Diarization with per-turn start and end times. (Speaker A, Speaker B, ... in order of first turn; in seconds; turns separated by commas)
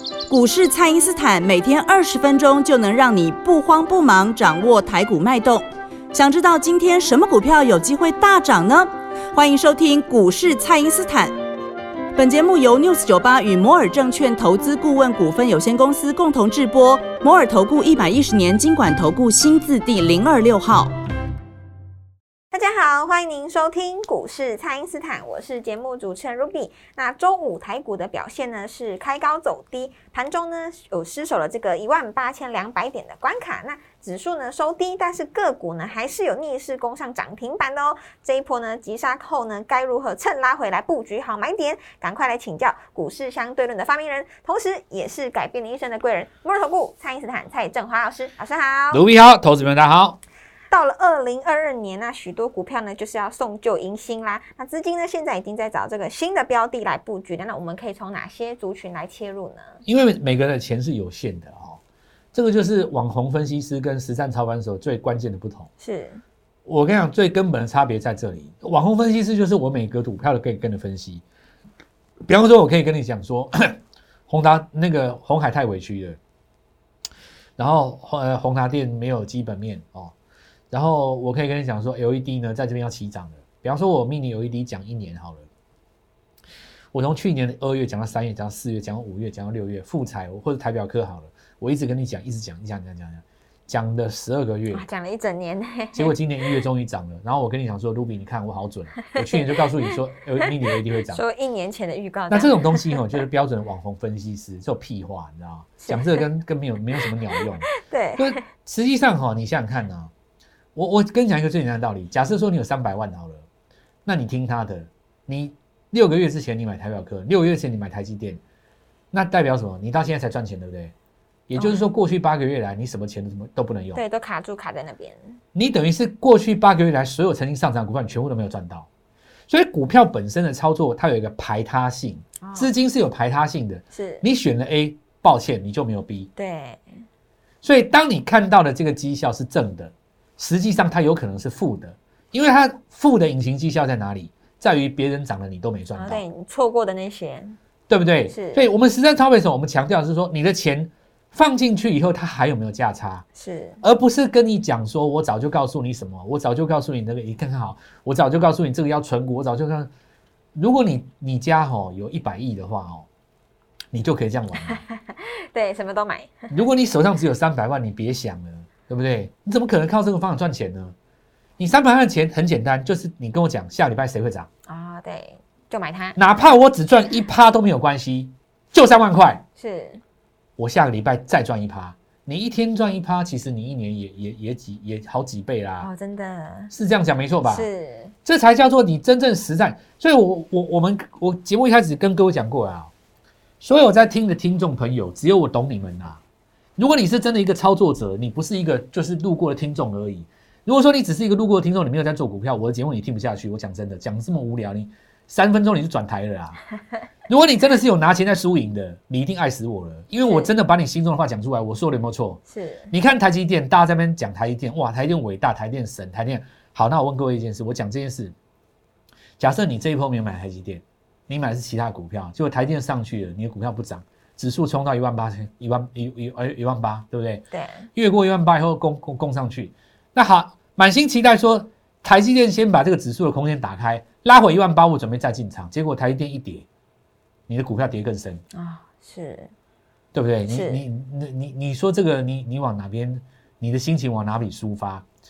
Speaker A: 0.3-11.3, Speaker A: 12.1-20.9, Speaker B: 22.5-49.0, Speaker C: 48.9-50.2, Speaker B: 50.7-59.8, Speaker C: 59.8-61.8, Speaker C: 62.3-65.7, Speaker B: 65.8-66.2, Speaker C: 66.7-71.2, Speaker C: 72.3-76.2, Speaker C: 77.6-80.1, Speaker C: 80.7-85.5, Speaker C: 86.9-94.8, Speaker B: 94.7-96.2, Speaker C: 95.9-101.2, Speaker B: 101.1-103.0, Speaker C: 102.3-110.1, Speaker B: 107.7-108.4, Speaker C: 110.7-113.4, Speaker C: 114.0-118.4, Speaker C: 119.1-120.9, Speaker C: 121.5-124.0, Speaker B: 121.6-121.9, Speaker B: 123.9-125.3, Speaker C: 125.5-128.9, Speaker C: 129.5-136.3, Speaker B: 132.4-132.7, Speaker B: 133.9-134.2, Speaker B: 136.3-136.8, Speaker C: 137.6-146.2, Speaker B: 145.9-147.6, Speaker C: 147.9-153.2, Speaker B: 148.3-148.7, Speaker B: 153.3-153.8, Speaker C: 153.8-159.9, Speaker C: 160.5-163.1, Speaker C: 163.9-164.8, Speaker B: 164.7-166.4, Speaker C: 166.5-170.9, Speaker C: 171.6-174.5, Speaker B: 174.7-176.2, Speaker C: 176.2-179.4, Speaker B: 179.6-180.0, Speaker C: 180.6-185.9, Speaker B: 185.8-186.7, Speaker C: 186.7-187.7, Speaker B: 187.4-188.1, Speaker C: 188.2-192.9, Speaker C: 193.6-196.2, Speaker C: 196.8-206.6, Speaker C: 207.3-218.3, Speaker B: 210.2-210.5, Speaker B: 212.5-212.9, Speaker C: 219.4-236.7, Speaker B: 227.5-227.9, Speaker C: 237.5-238.4, Speaker B: 238.5-239.5, Speaker C: 240.1-245.0, Speaker B: 240.5-240.8